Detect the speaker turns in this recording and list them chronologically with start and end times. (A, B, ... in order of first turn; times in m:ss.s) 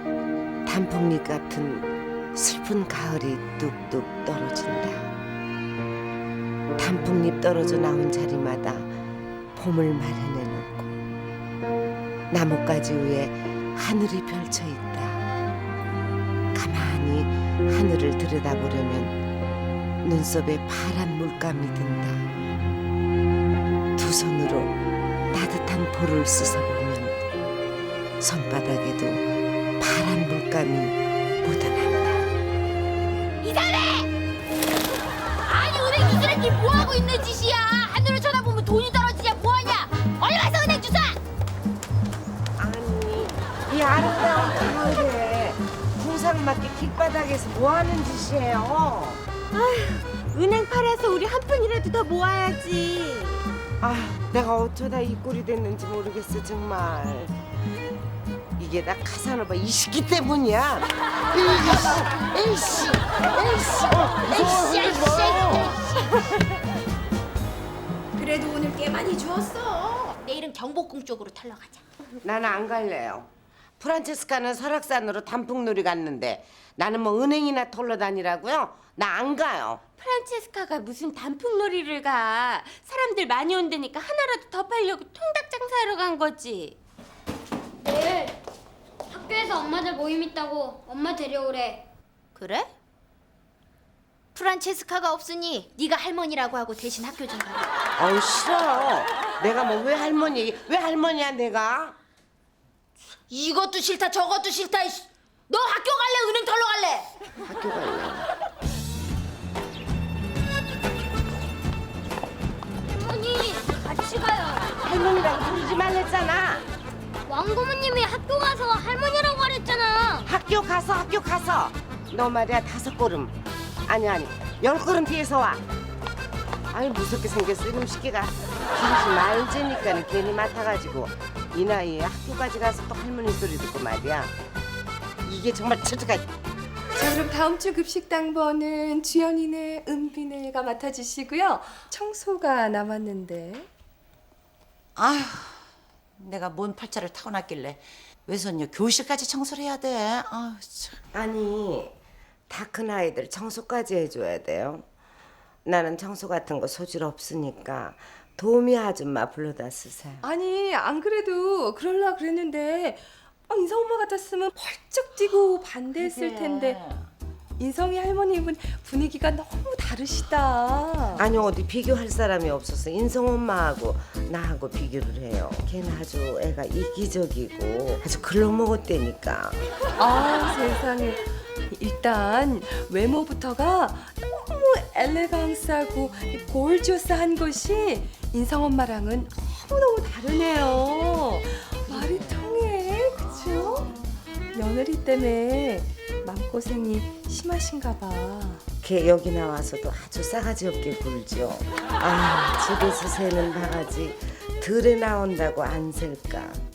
0:00.7-0:05.1 A
0:06.8-0:08.9 A
0:09.6-0:10.9 A
0:12.3-0:15.2 A
0:16.6-0:19.2 A
0:20.0-0:22.2 A
0:24.0-0:24.8 A
0:25.3-0:27.2 A
0:28.2-0:29.2 A
0:29.8-0:32.2 A
0:33.4-0:34.1 B
0:35.4-0:41.2 B
0:42.6-0:49.2 A
0:49.5-0:53.5 C
0:53.8-0:57.3 A
0:58.6-1:05.8 A
1:04.3-1:05.7 B
1:08.2-1:11.8 B
1:12.2-1:13.3 A
1:13.8-1:19.8 A
1:20.0-1:26.8 C
1:27.8-1:28.4 D
1:29.1-1:31.8 D
1:32.4-1:32.7 B
1:34.3-1:37.7 B
1:38.0-1:42.0 A
1:43.3-1:47.1 B
1:47.4-1:48.3 A
1:52.9-1:54.7 D
1:54.8-1:56.6 A
1:57.3-2:00.2 D
2:00.2-2:03.3 A
2:03.9-2:05.6 A
2:06.7-2:14.3 A
2:15.2-2:16.2 A
2:17.0-2:23.7 E
2:25.0-2:25.6 F
2:26.2-2:31.0 F
2:31.1-2:32.0 A
2:32.5-2:34.8 A
2:35.6-2:40.2 A
2:40.2-2:46.8 E
2:46.0-2:46.8 F
2:47.6-2:51.3 E
2:51.2-2:59.6 A
3:00.0-3:13.9 E
3:14.5-3:18.6 E
3:18.8-3:26.6 A